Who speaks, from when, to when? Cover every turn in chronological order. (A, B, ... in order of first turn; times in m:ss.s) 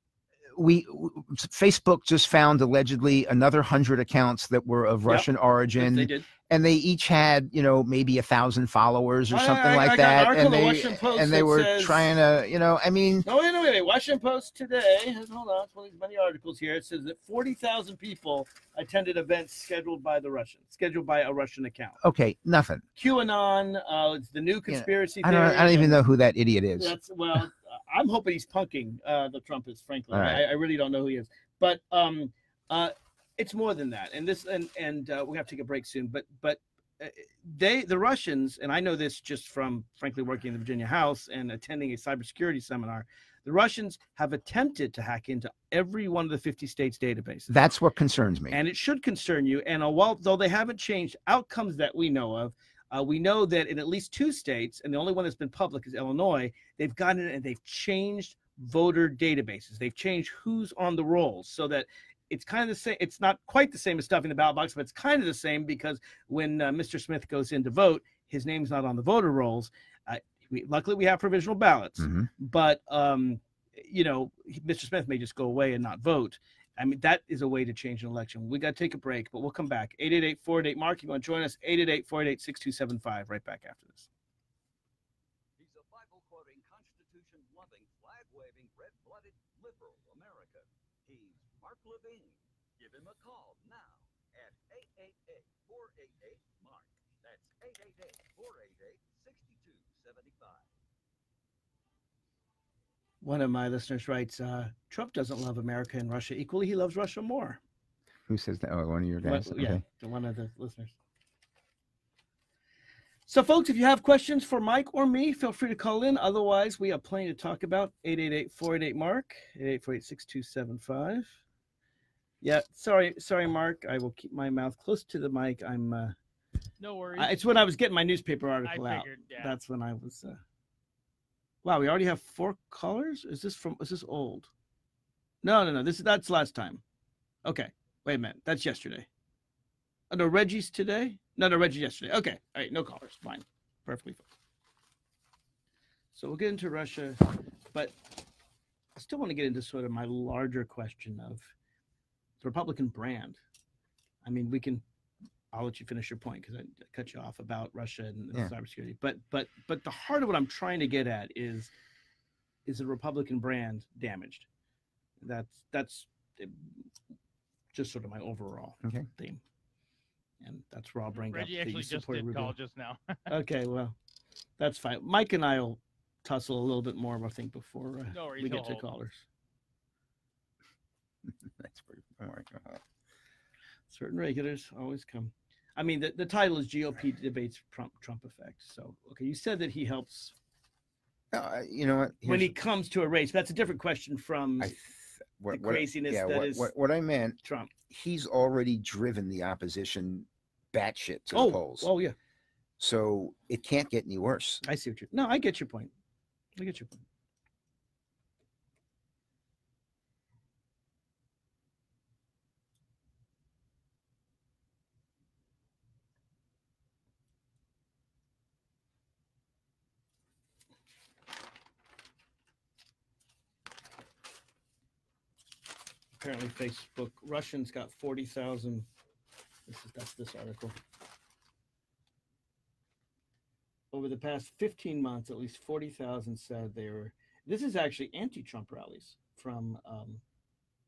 0:00.5-0:13.3 A
0:05.1-0:06.3 B
0:09.3-0:12.1 B
0:13.2-0:22.0 B
0:22.0-0:22.8 A
0:23.0-0:26.0 B
0:24.7-0:27.0 A
0:26.8-0:47.5 B
0:30.1-0:30.4 A
0:47.5-0:48.6 A
0:48.5-1:24.1 B
1:12.0-1:12.3 A
1:25.6-1:40.6 C
1:43.2-1:47.6 B
1:48.3-1:49.8 A
1:49.2-1:50.9 B
1:53.3-2:01.3 B
2:02.4-2:06.1 B
2:06.8-2:07.4 D
2:07.2-2:10.4 B
2:08.6-2:09.6 D
2:11.6-2:14.5 B
2:15.4-2:16.8 B
2:17.4-2:19.1 B
2:20.1-2:24.2 B
2:26.1-2:28.0 B
2:29.0-2:31.5 B
2:32.4-2:33.4 B
2:34.2-2:34.8 B
2:35.5-2:41.7 B
2:42.7-2:44.5 B
2:45.2-2:46.6 B
2:47.7-2:49.4 B
2:48.8-2:49.1 A
2:50.4-2:52.6 B
2:51.2-2:53.1 D
2:53.3-2:54.0 B
2:54.6-2:59.2 B
2:58.1-2:58.8 D
3:01.5-3:02.8 A
3:03.9-3:10.3 B
3:11.3-3:12.5 A
3:12.3-3:14.8 B
3:14.6-3:17.4 A
3:15.5-3:16.7 B
3:17.4-3:17.7 B
3:17.9-3:21.9 A
3:21.3-3:22.2 B
3:22.8-3:24.6 A
3:24.6-3:25.9 B
3:26.6-3:27.0 B
3:46.2-3:48.9 B
3:49.7-3:50.8 B
3:53.9-4:00.2 B